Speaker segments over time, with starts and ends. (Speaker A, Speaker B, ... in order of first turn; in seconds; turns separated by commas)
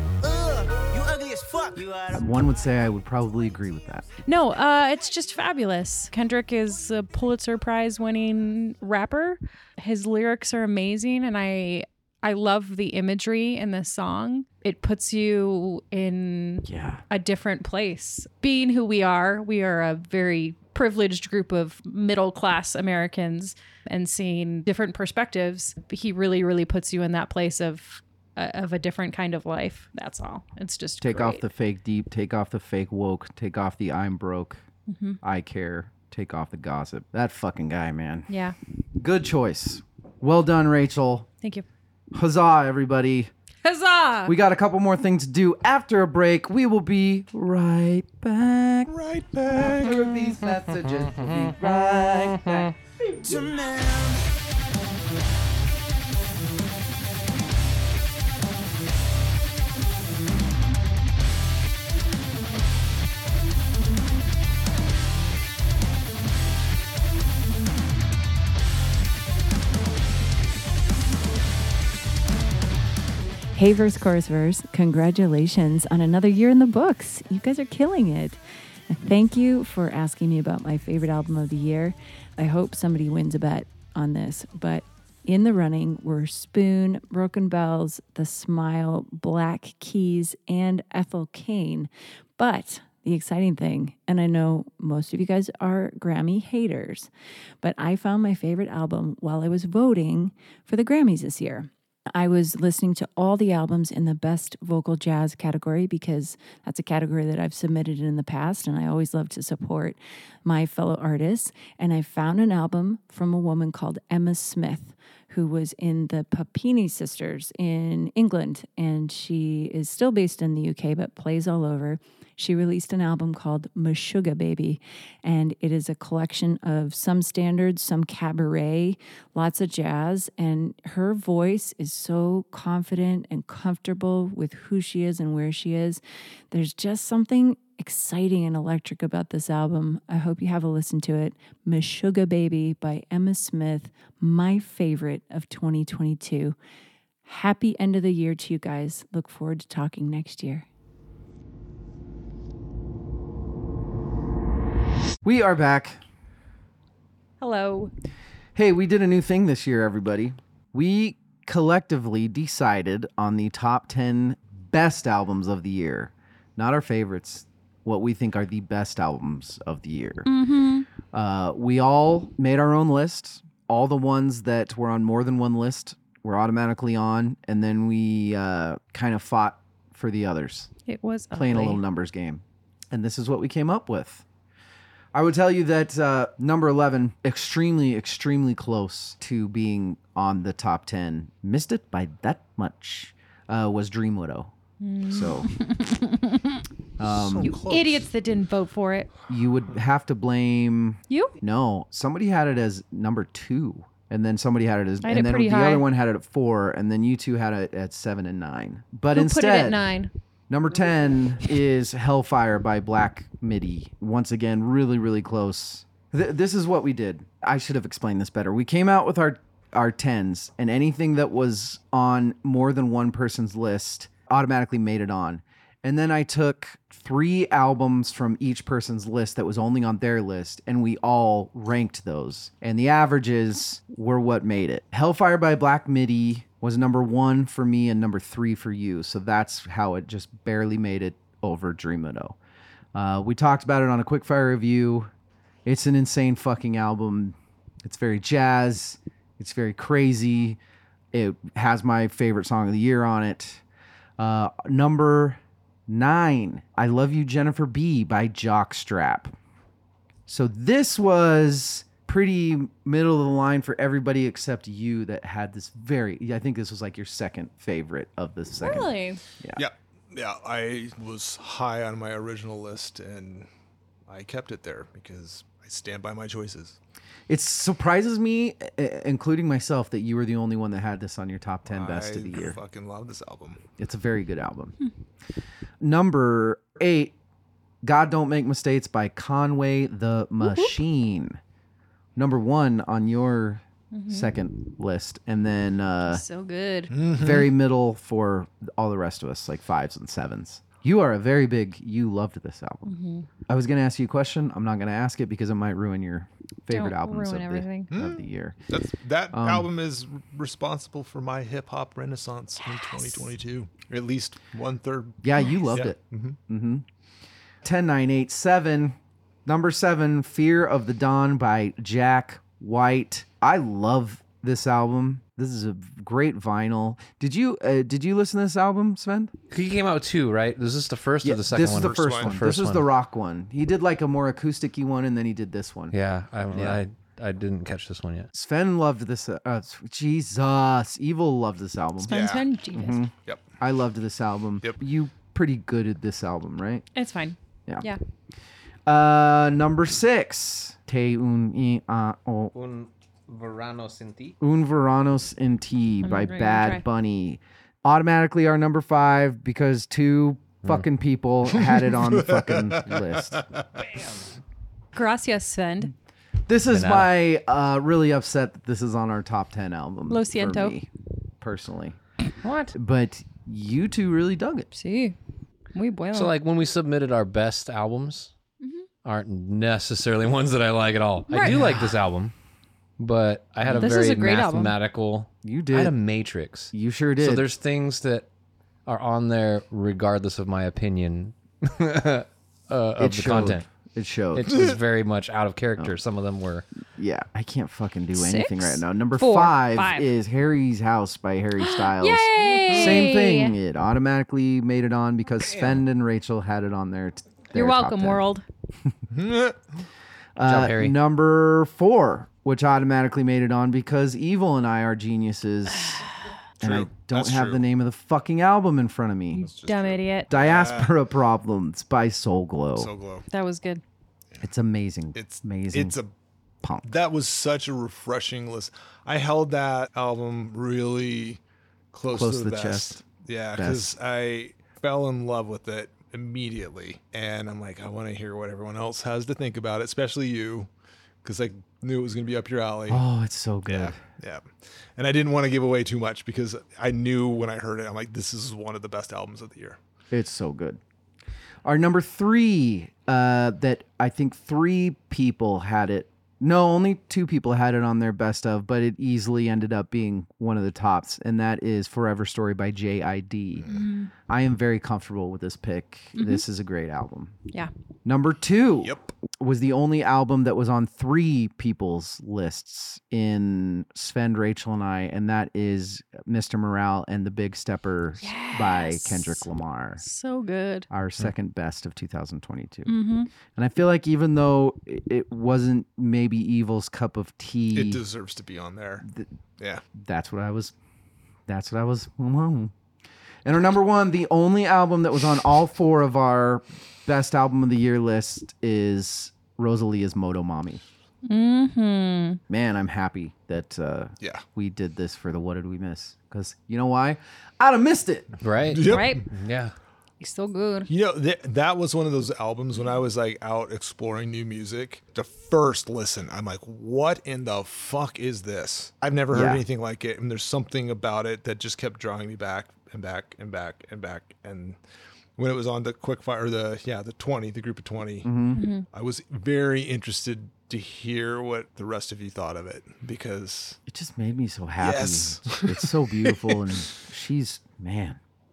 Speaker A: 0.2-2.2, Speaker B: 2.1-4.1, Speaker C: 4.3-31.4, Speaker B: 16.6-17.0, Speaker B: 31.0-34.6, Speaker C: 34.9-35.2, Speaker B: 35.2-38.3, Speaker C: 38.3-38.5, Speaker B: 39.0-41.3, Speaker B: 42.1-43.3, Speaker C: 43.6-44.4, Speaker B: 44.3-48.9, Speaker D: 48.9-50.1, Speaker B: 49.5-53.6, Speaker A: 53.2-54.3, Speaker E: 73.5-97.1, Speaker E: 97.6-146.6, Speaker E: 147.2-150.7, Speaker B: 155.2-156.0, Speaker C: 157.4-157.9, Speaker B: 158.6-170.3, Speaker C: 170.3-170.9, Speaker B: 171.1-180.7, Speaker C: 180.9-181.8, Speaker B: 181.3-184.2, Speaker B: 185.1-194.5, Speaker C: 194.8-196.6, Speaker B: 195.1-195.5, Speaker B: 197.0-197.5, Speaker D: 197.0-198.1, Speaker C: 197.4-199.1, Speaker B: 199.3-209.9, Speaker C: 201.1-201.3, Speaker C: 205.0-205.8, Speaker C: 209.1-210.1, Speaker B: 210.5-242.4, Speaker B: 242.9-245.1, Speaker B: 245.7-250.6, Speaker B: 251.1-253.6, Speaker B: 254.2-259.3, Speaker B: 260.3-269.6, Speaker C: 268.6-269.2, Speaker D: 269.6-273.5, Speaker D: 274.1-276.8, Speaker B: 277.3-282.6, Speaker D: 281.7-283.6, Speaker B: 283.8-284.7, Speaker B: 285.8-287.1, Speaker B: 287.8-291.4, Speaker B: 292.2-296.2, Speaker C: 293.9-294.3, Speaker C: 296.1-296.9, Speaker D: 296.9-297.5, Speaker B: 297.1-302.9, Speaker C: 302.9-303.3, Speaker B: 303.5-308.6, Speaker C: 306.7-307.9, Speaker D: 307.9-316.4, Speaker B: 309.3-309.7, Speaker B: 315.2-316.9, Speaker B: 317.6-329.3, Speaker F: 329.5-332.9, Speaker B: 331.2-335.9, Speaker D: 331.6-332.4, Speaker F: 335.9-338.3, Speaker B: 336.5-336.8, Speaker B: 338.3-346.9, Speaker C: 342.0-343.0, Speaker D: 342.1-342.4, Speaker C: 346.9-348.0, Speaker B: 348.9-352.5, Speaker F: 352.5-354.4, Speaker B: 354.4-363.4, Speaker C: 356.0-356.8, Speaker D: 361.6-363.7, Speaker F: 363.9-364.2, Speaker C: 364.9-365.9, Speaker B: 366.5-370.9, Speaker F: 366.7-367.1, Speaker C: 370.1-370.8, Speaker B: 371.4-372.0, Speaker F: 372.4-372.8, Speaker B: 372.7-374.7, Speaker C: 374.8-375.2, Speaker C: 375.7-376.3, Speaker F: 376.1-378.3, Speaker F: 379.1-382.3, Speaker C: 381.3-381.6, Speaker F: 383.0-388.3, Speaker C: 383.7-384.7, Speaker B: 385.4-385.9, Speaker B: 386.7-387.5, Speaker F: 388.9-393.7, Speaker B: 393.0-394.6, Speaker F: 394.3-396.7, Speaker B: 396.9-408.2, Speaker C: 398.1-400.1, Speaker C: 401.6-403.6, Speaker C: 407.5-408.4, Speaker D: 409.1-409.6, Speaker B: 410.4-416.1, Speaker F: 410.4-411.0, Speaker B: 416.6-419.5, Speaker D: 416.6-417.6, Speaker D: 419.4-420.9, Speaker C: 419.4-420.3, Speaker B: 420.3-422.9, Speaker D: 422.8-423.2, Speaker C: 423.3-423.8, Speaker B: 424.4-426.0, Speaker D: 425.1-426.1, Speaker B: 426.6-426.9, Speaker D: 426.9-431.4, Speaker D: 431.9-440.7, Speaker B: 432.1-433.0, Speaker B: 433.6-433.9, Speaker D: 441.2-443.0, Speaker B: 442.9-444.0, Speaker D: 443.7-449.8, Speaker B: 450.1-450.8, Speaker B: 451.6-467.4, Speaker D: 463.6-463.8, Speaker C: 463.7-464.1, Speaker C: 466.2-466.4, Speaker B: 468.1-480.0, Speaker D: 468.8-469.1, Speaker C: 478.2-479.5, Speaker C: 480.0-480.9, Speaker B: 480.9-482.9, Speaker C: 482.9-483.3, Speaker B: 483.5-488.0, Speaker D: 487.7-489.1, Speaker B: 489.0-489.3, Speaker D: 489.6-489.8, Speaker B: 489.9-490.7, Speaker B: 491.5-492.7, Speaker B: 493.4-500.8, Speaker C: 501.3-502.4, Speaker B: 502.5-508.3, Speaker F: 508.4-509.7, Speaker D: 508.7-509.2, Speaker C: 508.9-509.2, Speaker C: 510.2-510.9, Speaker D: 510.9-524.8, Speaker B: 519.3-519.6, Speaker D: 525.4-528.3, Speaker B: 528.2-528.6, Speaker C: 528.5-528.9, Speaker D: 528.9-533.8, Speaker B: 533.9-538.2, Speaker D: 534.8-536.6